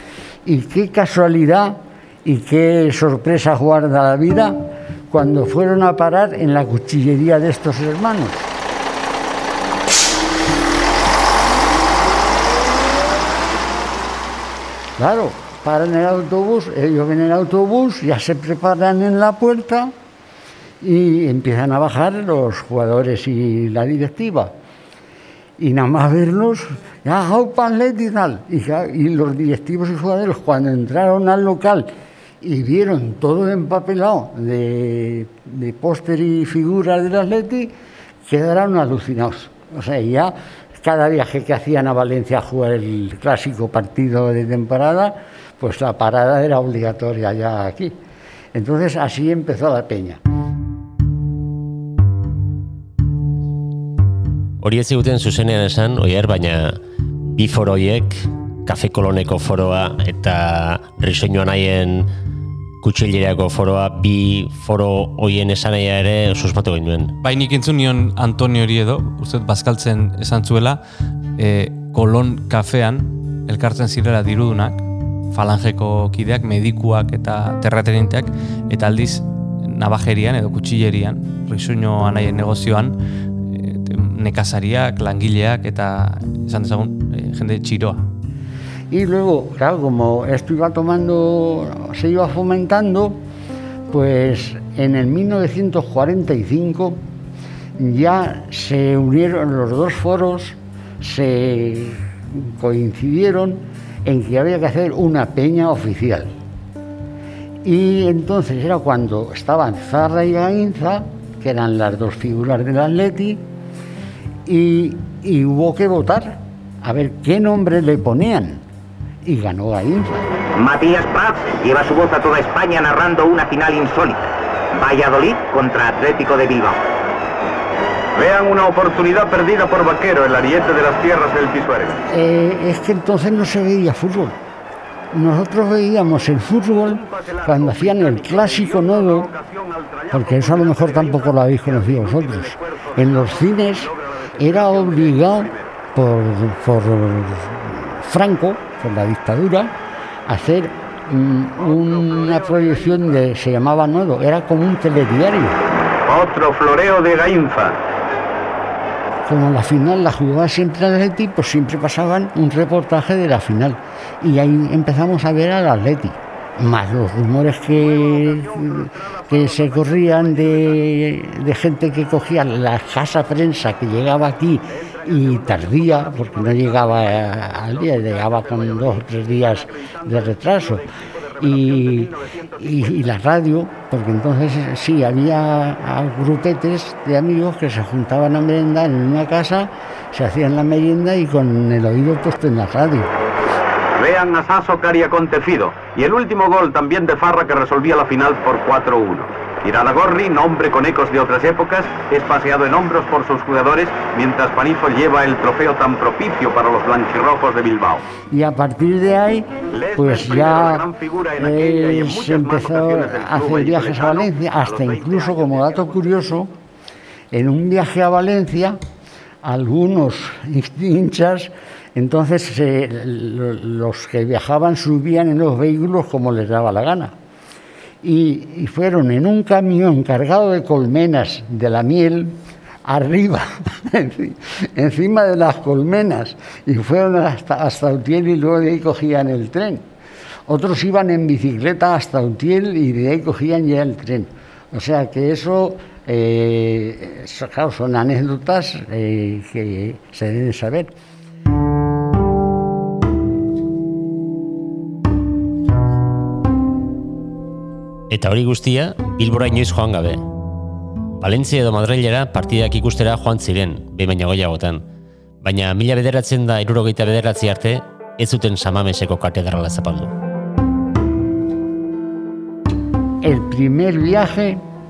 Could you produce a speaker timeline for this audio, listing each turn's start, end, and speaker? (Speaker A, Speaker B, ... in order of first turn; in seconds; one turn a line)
Speaker A: 0.4-8.5
Speaker A: 15.0-19.9
Speaker A: 20.8-24.5
Speaker A: 25.6-37.7
Speaker A: 38.3-48.0
Speaker A: 48.5-50.2
Speaker B: 54.6-62.1
Speaker B: 62.8-67.1
Speaker C: 67.2-70.8
Speaker C: 71.4-82.9
Speaker C: 83.5-88.1
Speaker A: 88.9-93.2
Speaker A: 93.9-97.0
Speaker A: 97.8-106.3
Speaker A: 107.6-113.4
Speaker A: 114.5-118.6
Speaker A: 119.2-120.3
Speaker D: 120.6-126.8
Speaker E: 128.1-132.0
Speaker A: 132.1-134.4
Speaker A: 135.1-139.3
Speaker E: 136.8-145.6
Speaker A: 140.1-149.7
Speaker A: 150.3-155.6
Speaker E: 151.6-153.0
Speaker E: 156.1-157.8
Speaker A: 159.2-180.8
Speaker E: 167.7-170.4
Speaker E: 174.8-183.0
Speaker A: 181.4-193.1
Speaker E: 194.0-208.0
Speaker A: 208.3-216.5
Speaker E: 209.7-215.9
Speaker A: 217.3-218.8
Speaker A: 219.4-227.1
Speaker A: 228.0-239.8
Speaker A: 240.5-250.9
Speaker B: 258.1-260.2
Speaker B: 261.2-264.8
Speaker B: 265.4-270.1
Speaker A: 273.2-274.6